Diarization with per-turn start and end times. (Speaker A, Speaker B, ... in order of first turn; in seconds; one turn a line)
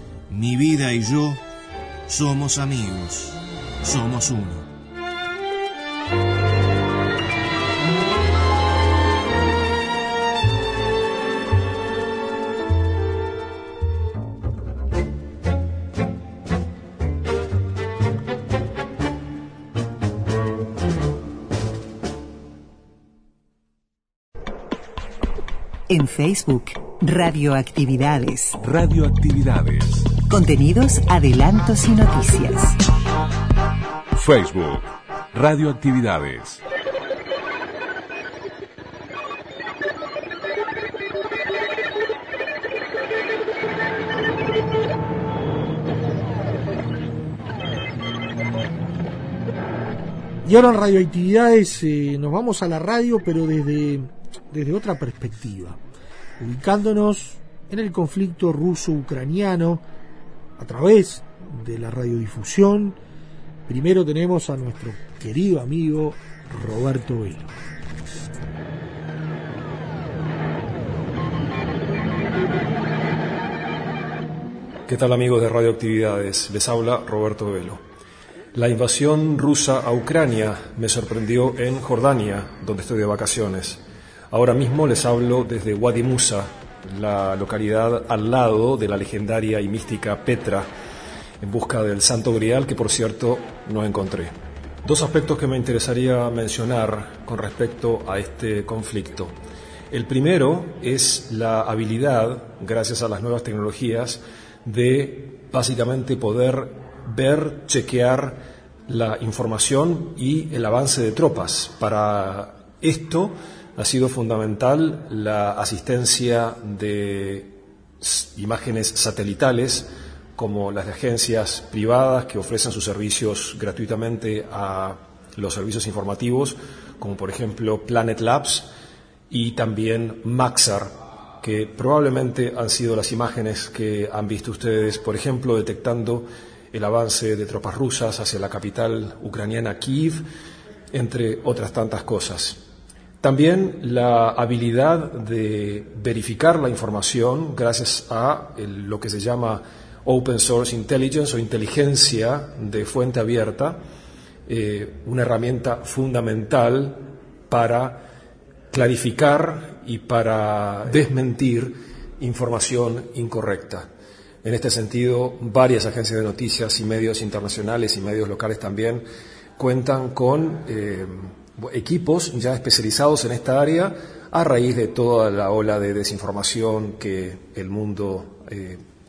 Speaker A: 0.3-1.4
Speaker A: 2.1-4.7
Speaker B: 25.9-28.6
Speaker C: 28.6-30.2
Speaker B: 30.3-32.8
Speaker C: 34.1-36.6
Speaker D: 50.5-55.8
Speaker D: 56.4-59.8
Speaker D: 60.6-63.0
Speaker D: 63.7-67.5
Speaker E: 74.9-77.8
Speaker E: 78.5-90.7
Speaker E: 91.4-99.3
Speaker E: 99.9-128.7
Speaker E: 129.3-140.2
Speaker E: 140.9-142.6
Speaker E: 143.2-153.8
Speaker E: 154.5-158.1
Speaker E: 158.7-163.9
Speaker E: 164.4-169.0
Speaker E: 169.6-178.8